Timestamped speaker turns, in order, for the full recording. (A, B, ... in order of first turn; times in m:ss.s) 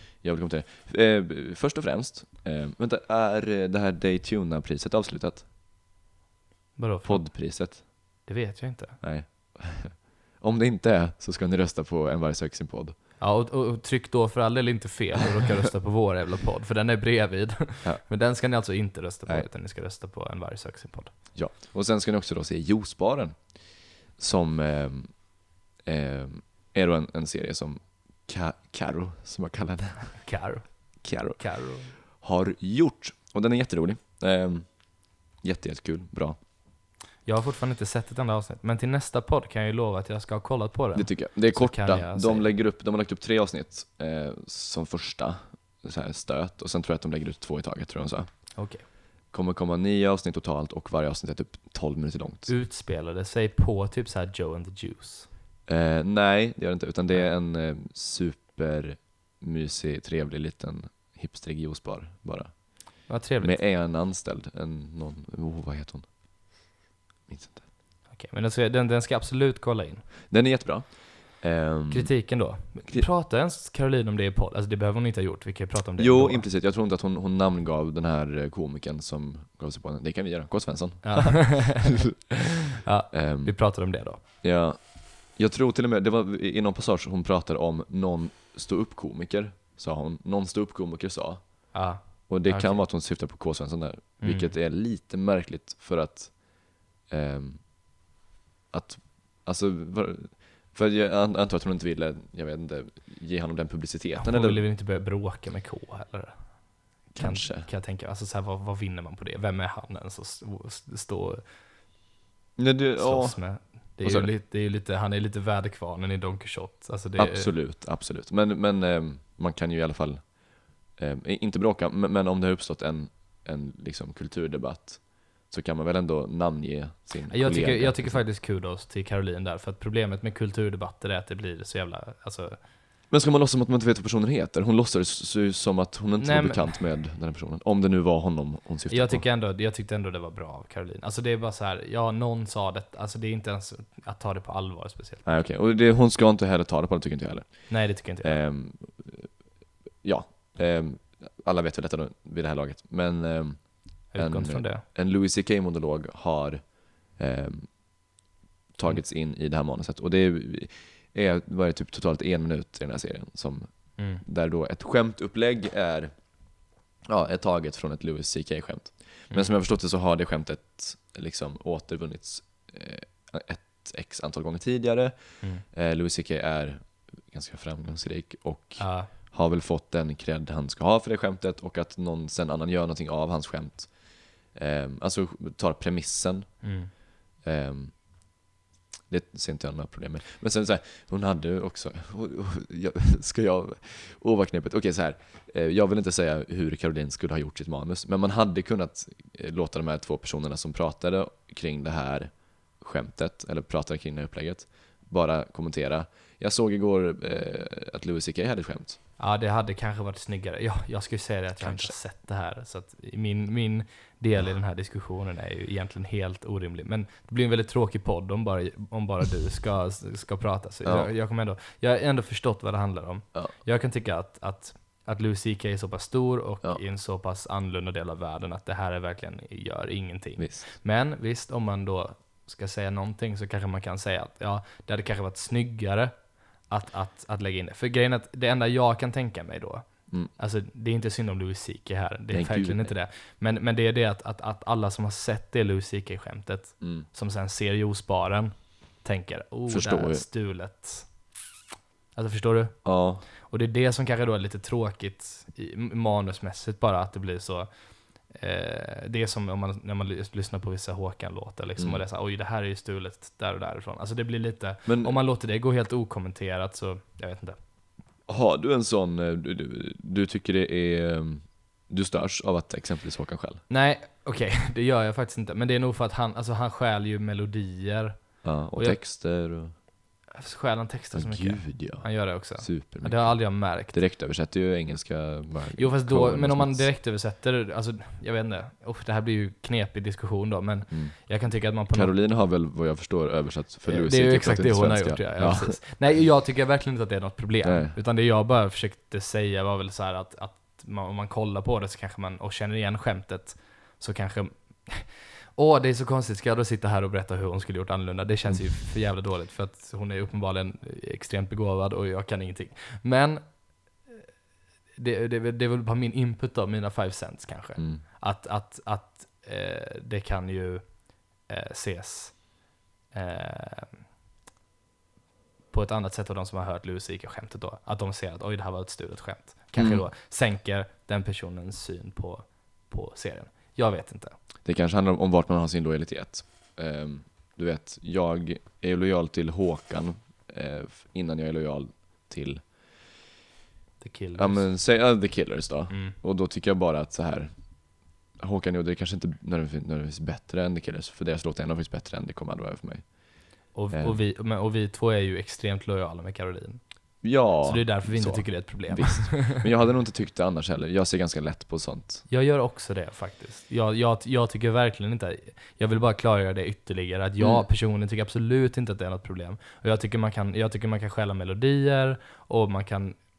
0:00.2-0:05.4 A
0:06.8-0:07.3 B
0:07.0-0:07.8 A
0:08.2-0:09.0 B
0:09.0-0:13.0 A
0:13.2-0:21.1 B
0:21.4-0:23.5 A
0:24.2-0:25.2 A
0:25.8-0:30.2 A
0:30.1-0:30.7 B
0:31.0-0:34.7 A
0:31.4-0:31.9 B
0:35.4-0:36.4 A
0:37.3-0:42.5 B
0:41.0-0:48.3 A
0:48.6-0:48.8 B
0:49.3-0:52.5 A
0:52.5-0:55.3 B
0:55.7-1:02.7 A
1:03.1-1:03.6 B
1:03.4-1:06.1 A
1:07.3-1:07.6 A
1:08.1-1:10.1 B
1:10.3-1:12.2 A
1:11.9-1:16.5 B
1:16.0-1:22.3 A
1:21.0-1:22.1 B
1:22.8-1:24.2 B
1:23.1-1:23.6 A
1:24.4-1:24.8 A
1:25.4-1:31.4 A
1:31.7-1:32.8 B
1:32.3-1:36.4 A
1:34.2-1:34.5 B
1:37.1-1:37.6 A
1:38.7-1:44.6 A
1:44.2-1:46.4 B
1:47.1-1:51.4 B
1:47.1-1:47.7 A
1:52.6-1:53.4 A
1:53.0-1:57.5 B
1:54.0-1:54.3 A
1:57.2-2:00.3 A
2:01.0-2:08.2 A
2:07.3-2:12.6 B
2:13.1-2:19.2 A
2:16.2-2:16.8 B
2:18.9-2:25.2 B
2:25.2-2:29.3 A
2:27.7-2:28.4 B
2:30.0-2:33.6 A
2:34.1-2:34.8 B
2:34.2-2:37.7 A
2:38.8-2:43.7 A
2:44.0-2:44.2 B
2:44.2-2:46.1 A
2:47.1-3:04.0 A
2:58.8-2:59.1 B
3:04.5-3:06.6 A
3:06.6-3:06.9 B
3:07.4-3:07.9 A
3:09.1-3:29.0 A
3:29.2-3:56.1 B
3:31.6-3:32.0 A
3:40.8-3:41.1 A
3:50.4-3:50.6 A
3:56.7-4:11.1 B
4:02.3-4:02.9 A
4:06.8-4:07.1 A
4:09.7-4:10.2 A
4:12.2-4:12.8 B
4:12.8-4:13.2 A
4:13.4-4:17.7 B
4:18.3-4:27.6 B
4:21.8-4:22.0 A
4:24.9-4:25.2 A
4:28.3-4:33.6 A
4:33.7-4:39.0 B
4:38.4-4:39.7 A
4:40.4-4:44.0 B
4:41.1-4:46.9 A
4:45.8-4:52.1 B
4:51.9-4:55.8 A
4:53.9-5:13.6 B
4:57.6-4:58.0 A
5:15.0-5:20.8 B
5:17.8-5:18.0 A
5:21.4-5:22.5 B
5:23.1-5:24.0 B
5:25.7-5:34.4 B
5:29.8-5:30.0 A
5:34.6-5:42.6 A
5:44.0-5:44.7 B
5:44.4-5:47.5 A
5:45.9-5:46.2 B
5:48.4-5:53.0 A
5:53.8-5:56.8 B
5:53.9-5:54.2 A
5:57.2-6:02.2 A
5:57.6-5:59.7 B
6:02.3-6:13.2 B
6:07.4-6:07.6 A